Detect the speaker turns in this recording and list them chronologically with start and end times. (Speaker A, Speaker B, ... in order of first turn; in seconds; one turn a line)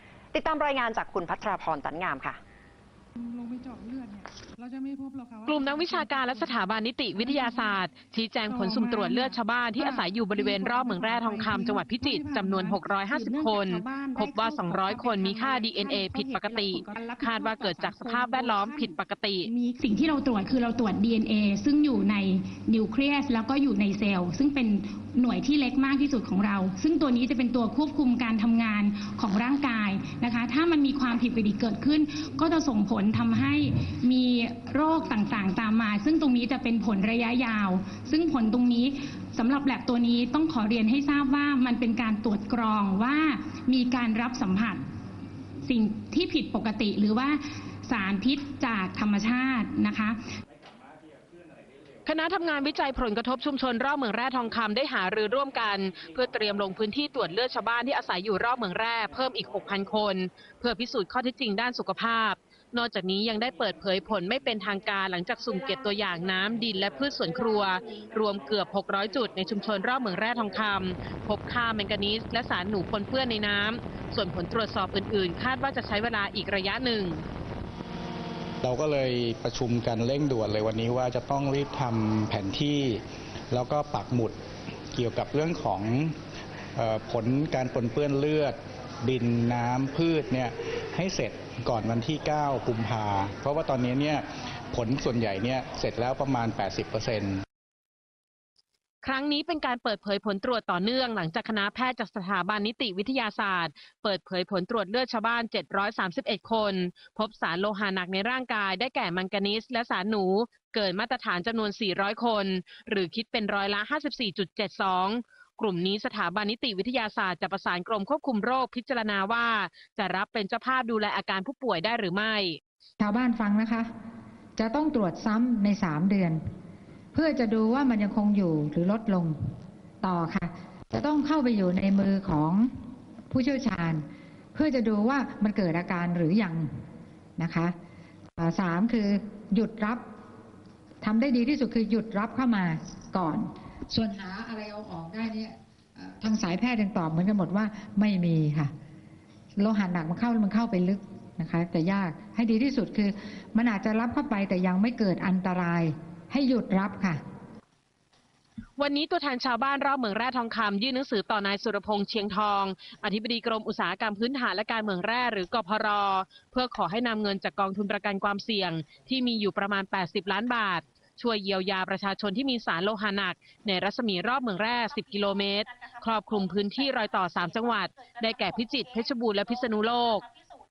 Speaker A: 0.3-2.4
Speaker B: 3.2-7.9
Speaker C: 5.5-19.5
Speaker B: 8.5-19.8
Speaker D: 19.6-44.9
Speaker D: 45.6-50.2
Speaker C: 52.0-77.2
Speaker E: 78.6-84.3
Speaker E: 84.9-86.1
Speaker E: 86.8-97.4
Speaker C: 99.0-122.6
Speaker F: 123.0-123.9
Speaker F: 124.6-126.4
Speaker F: 127.1-129.4
Speaker F: 130.0-132.7
Speaker F: 133.3-136.7
Speaker F: 137.4-137.7
Speaker F: 138.4-140.0
Speaker F: 141.0-148.7
Speaker F: 149.6-157.2
Speaker C: 158.8-180.3